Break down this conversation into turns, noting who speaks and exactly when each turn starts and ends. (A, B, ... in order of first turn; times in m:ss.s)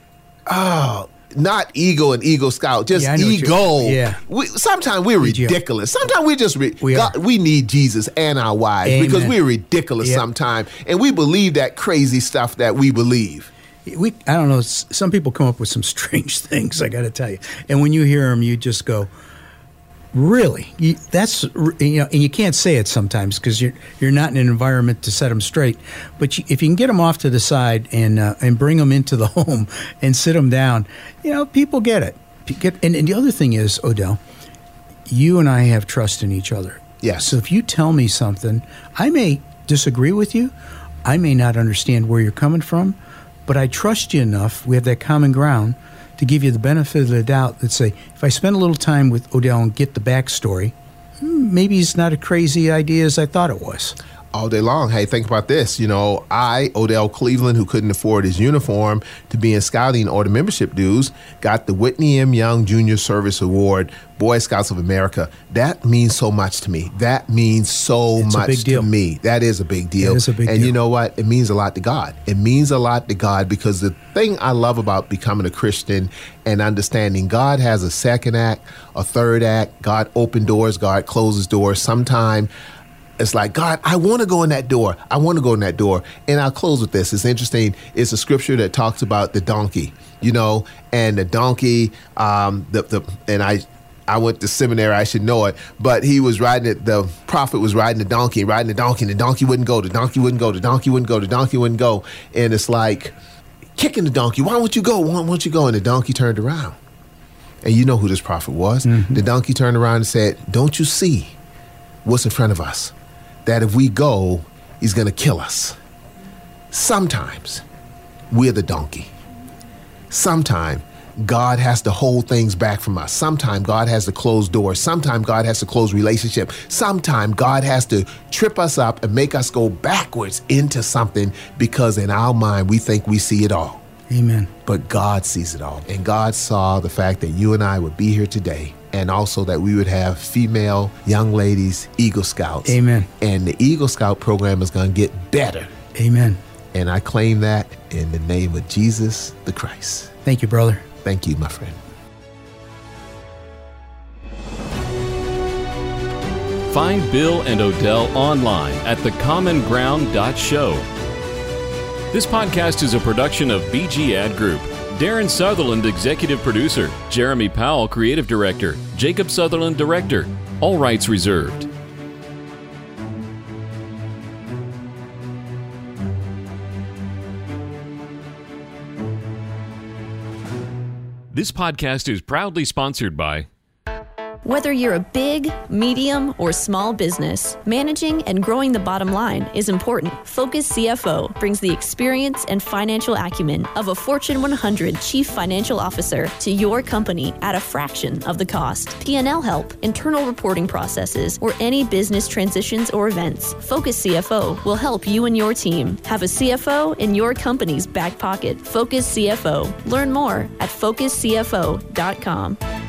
0:00.5-0:13.5 A
0:02.9-0:04.2 B
0:05.2-0:05.6 B
0:06.8-0:07.1 B
0:08.8-0:09.4 B
0:13.8-0:19.1 B
0:20.1-0:34.2 B
0:35.1-0:40.5 B
0:37.0-0:37.4 A
0:41.0-0:54.0 B
0:54.3-1:22.5 A
1:08.2-1:08.9 B
1:10.0-1:10.7 B
1:23.2-1:43.2 A
1:43.8-1:46.8 A
1:47.6-1:51.4 A
1:48.8-1:49.2 B
1:52.0-1:52.9 A
1:53.4-1:55.8 A
1:56.7-1:57.6 A
1:58.3-1:59.1 A
2:00.1-2:13.8 A
2:14.1-2:14.5 B
2:14.6-2:25.7 A
2:22.6-2:23.1 B
2:26.0-2:26.4 B
2:26.7-2:30.1 A
2:30.2-2:30.8 B
2:31.0-2:31.8 A
2:36.7-2:40.8 C
2:42.1-2:51.7 C
3:01.3-3:03.5 C
3:04.4-3:32.6 D